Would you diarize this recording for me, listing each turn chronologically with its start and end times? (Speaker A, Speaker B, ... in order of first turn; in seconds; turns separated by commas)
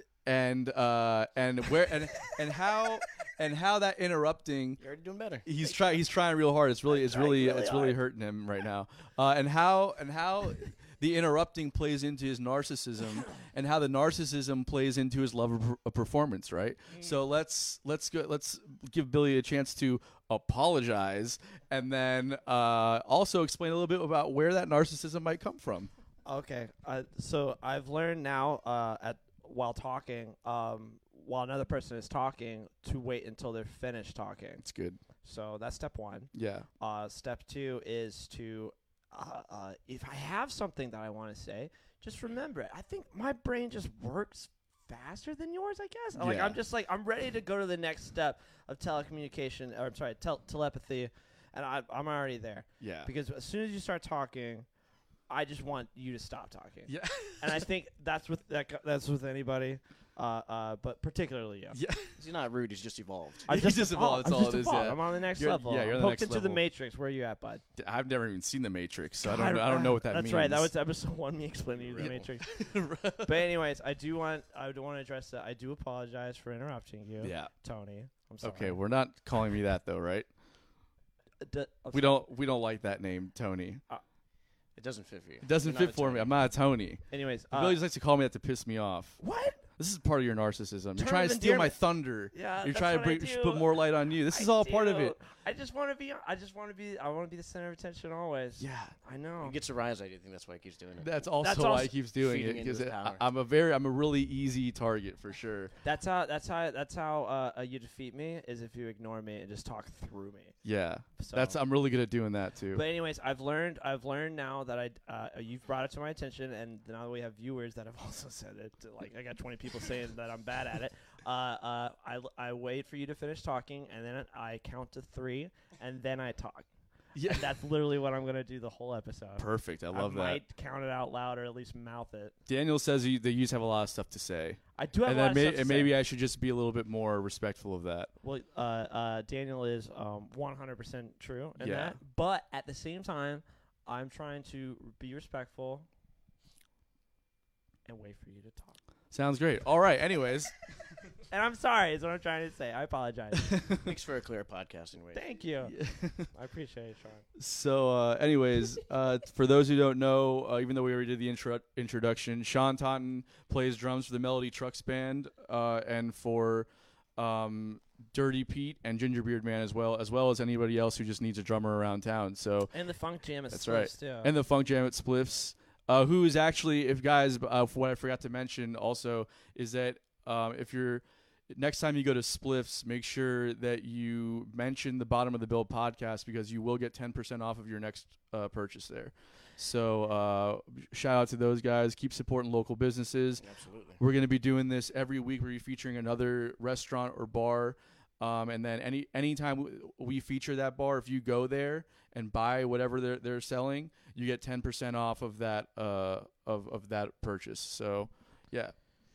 Speaker A: 0.2-4.8, Speaker B: 4.8-5.5, Speaker A: 5.5-25.9, Speaker C: 6.9-8.0, Speaker C: 26.2-34.6, Speaker A: 34.6-35.0, Speaker C: 35.2-54.7, Speaker A: 36.3-36.7, Speaker A: 46.2-46.6, Speaker A: 52.8-53.1, Speaker C: 55.3-61.8, Speaker A: 56.9-57.6, Speaker A: 61.7-62.1, Speaker B: 62.2-63.5, Speaker A: 63.5-66.6, Speaker C: 63.5-67.6, Speaker A: 67.8-70.7, Speaker C: 69.2-78.8, Speaker B: 71.9-72.3, Speaker A: 72.0-73.5, Speaker A: 77.2-77.5, Speaker A: 78.4-80.3, Speaker C: 81.4-82.3, Speaker A: 81.9-83.8, Speaker B: 84.8-86.5, Speaker A: 85.4-89.2, Speaker C: 87.1-87.8, Speaker C: 89.2-89.6, Speaker A: 89.8-95.2, Speaker C: 91.0-91.8, Speaker C: 92.3-99.6, Speaker A: 98.6-98.9, Speaker B: 99.4-101.1, Speaker A: 101.0-105.7, Speaker C: 101.4-101.9, Speaker B: 102.2-103.3, Speaker C: 105.8-110.5, Speaker A: 110.7-112.8, Speaker C: 111.2-111.6, Speaker C: 112.7-126.7, Speaker A: 127.2-127.5, Speaker C: 127.2-132.3, Speaker A: 129.4-130.4, Speaker A: 132.5-138.1, Speaker C: 134.8-135.9, Speaker C: 138.2-145.9, Speaker A: 141.6-142.0, Speaker C: 147.9-148.8, Speaker A: 149.1-150.6, Speaker C: 151.3-153.6, Speaker A: 153.3-153.8, Speaker B: 153.8-155.2, Speaker C: 155.1-155.7, Speaker A: 155.6-156.3, Speaker C: 156.3-157.2, Speaker A: 157.4-172.7, Speaker C: 172.7-174.3, Speaker A: 173.5-193.4, Speaker B: 193.4-194.0, Speaker A: 194.0-208.7